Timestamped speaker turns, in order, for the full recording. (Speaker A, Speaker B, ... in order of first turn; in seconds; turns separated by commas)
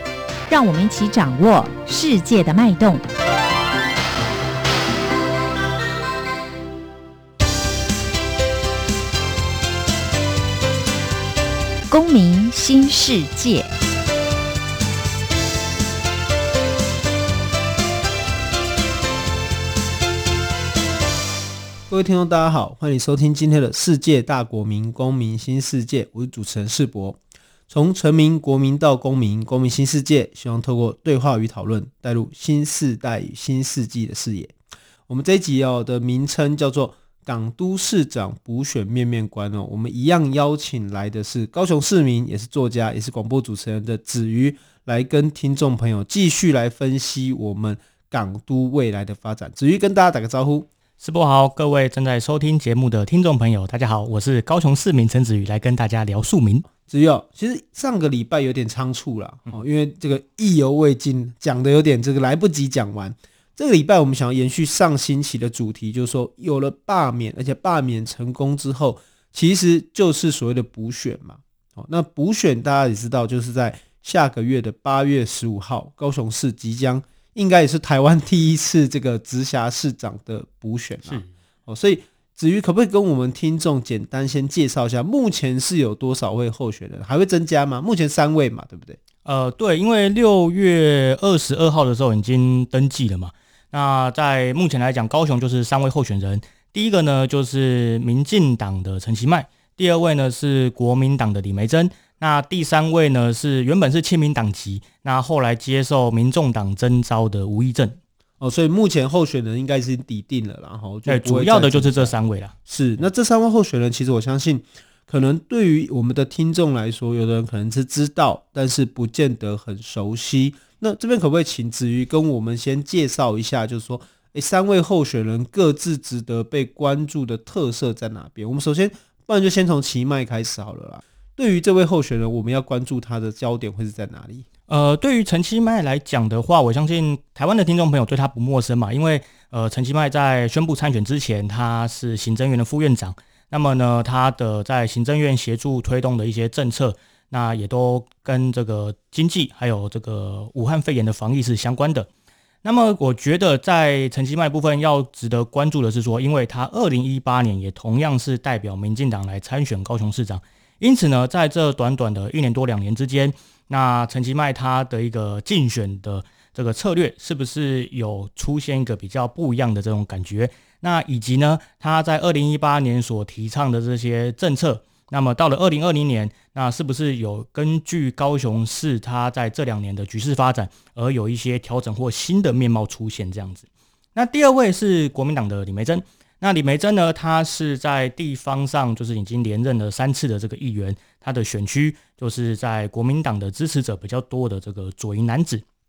Speaker A: 0.5-3.0, Speaker A: 11.9-13.7, Speaker B: 21.9-27.2, Speaker B: 27.7-34.5, Speaker B: 35.1-50.7, Speaker C: 51.0-56.7, Speaker B: 56.9-89.0, Speaker C: 89.2-108.0, Speaker B: 108.4-112.1, Speaker C: 111.1-112.5, Speaker B: 112.7-134.5, Speaker C: 134.7-152.1, Speaker C: 152.6-195.6